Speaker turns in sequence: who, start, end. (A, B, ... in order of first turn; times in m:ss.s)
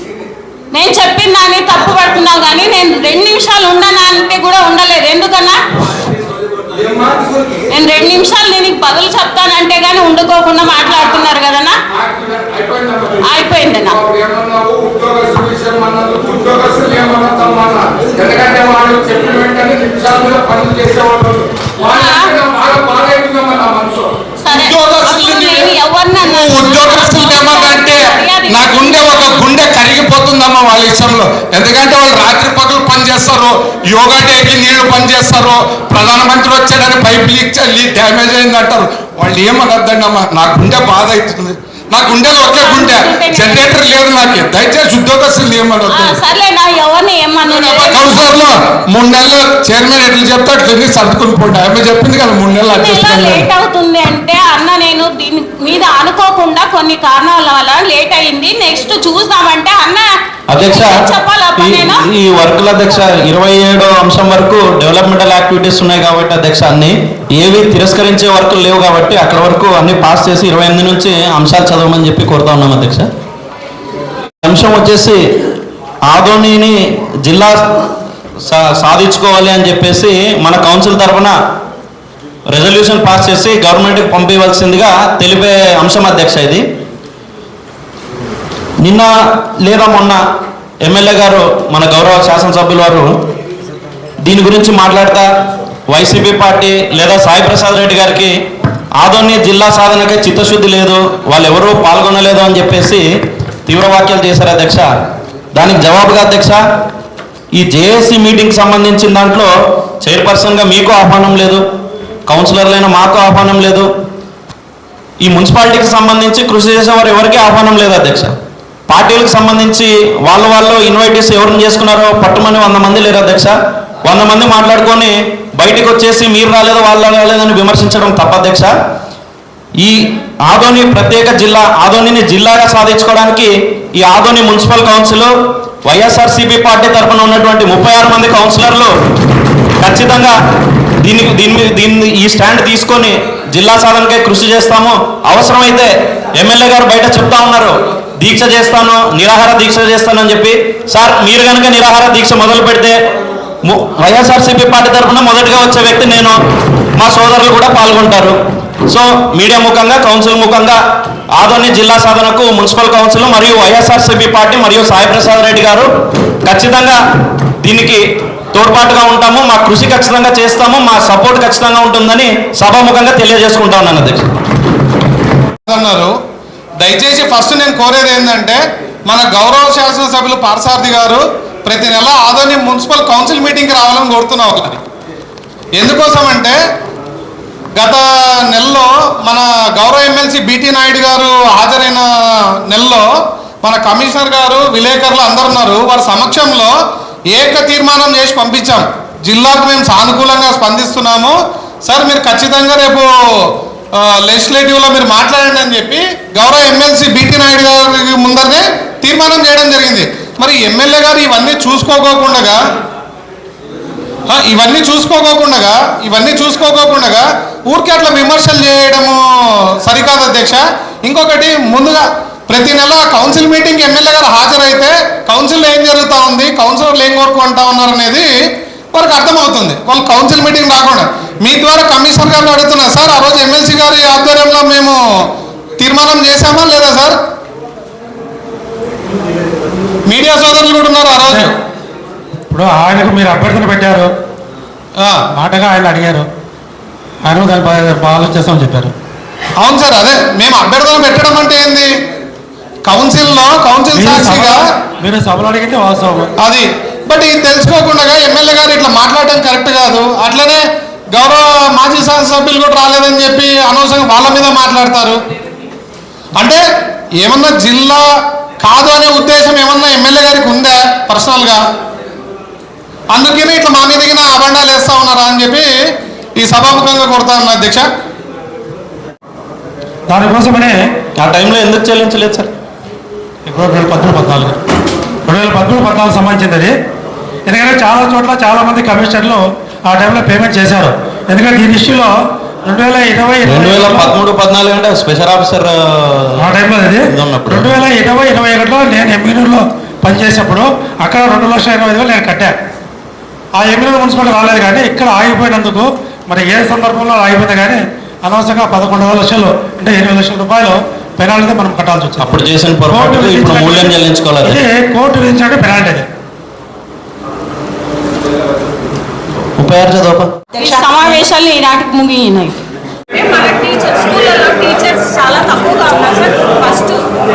0:00.7-0:05.6 A
0:06.7-0:07.5 B
0:07.7-0:11.8 A
0:11.9-0:46.2 B
0:13.2-0:14.0 A
0:21.8-0:22.3 A
0:24.4-0:29.6 A
0:42.1-0:43.8 A
0:45.8-0:48.5 A
0:47.4-0:53.5 B
0:52.6-1:02.0 A
1:00.5-1:13.1 C
1:14.4-1:15.2 C
1:16.1-1:17.9 C
1:18.4-1:21.3 C
1:22.5-1:26.6 C
1:28.8-1:30.2 C
1:30.8-1:33.1 C
1:34.2-1:35.3 C
1:35.9-1:38.3 C
1:39.0-1:43.0 C
1:43.7-1:44.9 C
1:45.5-1:46.6 C
1:47.5-1:49.5 C
1:50.0-1:51.6 C
1:52.3-1:53.9 C
1:55.2-1:58.3 C
1:58.9-2:08.7 C
2:09.8-2:15.3 C
2:15.8-2:18.9 C
2:19.8-2:20.4 C
2:21.0-2:33.0 C
2:33.6-2:36.4 C
2:37.0-2:38.4 C
2:38.9-2:40.8 C
2:41.3-2:45.9 C
2:46.4-2:47.0 C
2:47.6-2:48.0 C
2:48.5-2:54.2 C
2:55.6-2:56.1 D
2:56.8-3:04.8 D
3:05.8-3:06.6 D
3:07.8-3:08.0 D
3:08.5-3:12.0 D
3:12.7-3:13.0 D
3:13.6-3:16.7 D
3:17.3-3:21.3 D
3:21.8-3:23.1 D
3:24.3-3:32.6 D
3:34.3-3:39.2 D
3:39.8-3:48.2 D
3:48.9-3:55.0 D
3:55.8-3:57.1 D
4:00.1-4:01.5 D
4:01.2-4:01.5 E
4:02.5-4:04.1 E
4:05.3-4:06.3 E
4:07.2-4:08.9 E
4:09.6-4:11.9 D
4:12.8-4:14.6 D
4:13.9-4:16.3 E
4:16.4-4:20.6 D
4:21.1-4:25.2 D
4:26.4-4:26.6 D
4:27.2-4:28.0 D
4:28.6-4:31.6 D
4:33.1-4:35.7 D
4:36.4-4:37.8 D
4:40.1-4:40.8 E
4:41.2-4:42.5 C
4:43.4-4:44.6 E
4:45.3-4:46.7 E
4:47.5-4:52.1 E
4:52.6-4:54.1 E
4:53.4-4:56.5 C
4:56.4-5:02.5 E
4:57.1-4:57.7 C
5:03.6-5:12.4 E
5:12.2-5:14.6 C
5:12.9-5:13.9 E
5:14.4-5:16.1 E
5:19.6-5:20.3 C
5:20.5-5:22.6 A
5:23.1-5:27.0 A